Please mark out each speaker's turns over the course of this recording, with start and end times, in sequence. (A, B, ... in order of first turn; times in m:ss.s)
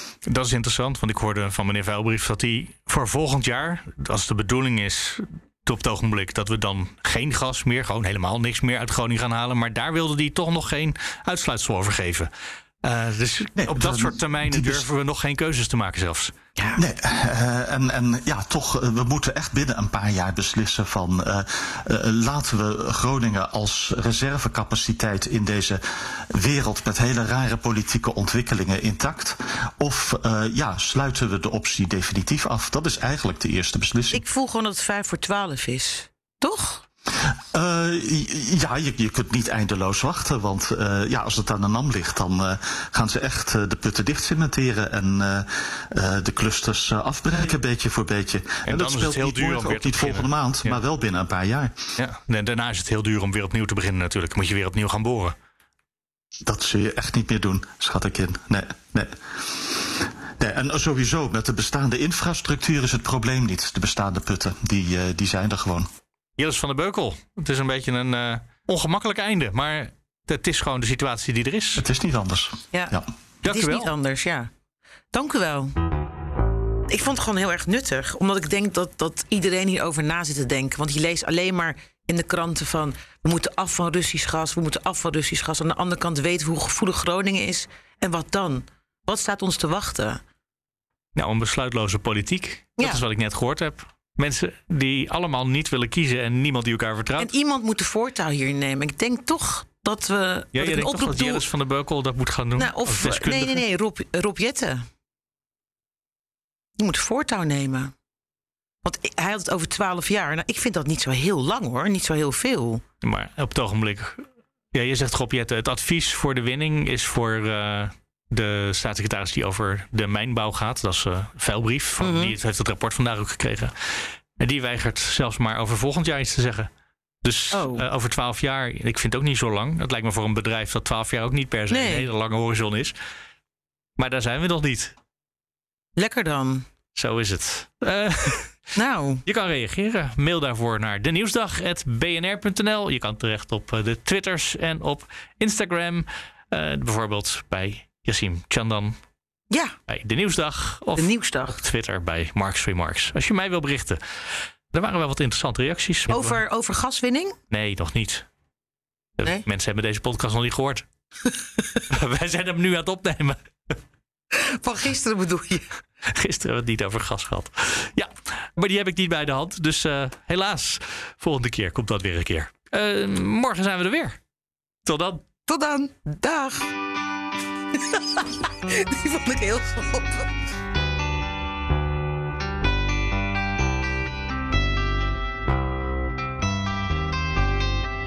0:00.3-0:12.3 A
0:12.8-0:16.3 A
0:13.6-0:14.9 B
0:16.8-0:34.2 B
0:34.1-0:36.8 C
0:37.5-0:51.8 B
0:48.7-0:50.8 A
0:52.0-0:55.4 A
0:56.5-1:05.9 B
1:06.4-1:11.8 A
1:11.8-1:13.1 B
1:12.7-1:14.5 C
1:13.4-1:13.9 A
1:15.1-1:15.8 C
1:16.9-1:30.2 C
1:31.2-1:37.3 A
1:37.2-1:41.4 C
1:40.6-1:43.6 A
1:42.6-1:44.9 C
1:46.8-1:47.9 C
1:48.8-1:52.8 C
1:53.0-2:06.7 A
2:02.0-2:02.3 C
2:07.2-2:13.0 A
2:07.5-2:07.8 C
2:11.7-2:12.1 C
2:14.0-2:15.0 A
2:16.0-2:16.7 C
2:17.0-2:18.6 A
2:18.8-2:19.2 C
2:19.3-2:29.0 A
2:29.9-2:34.0 A
2:31.0-2:31.6 C
2:34.7-2:36.4 A
2:36.1-2:37.4 C
2:37.5-2:38.3 A
2:39.2-2:40.9 A
2:41.9-2:43.8 A
2:44.3-2:45.6 C
2:46.0-2:54.2 A
2:54.9-2:55.2 A
2:55.4-2:56.7 C
2:57.7-3:00.3 C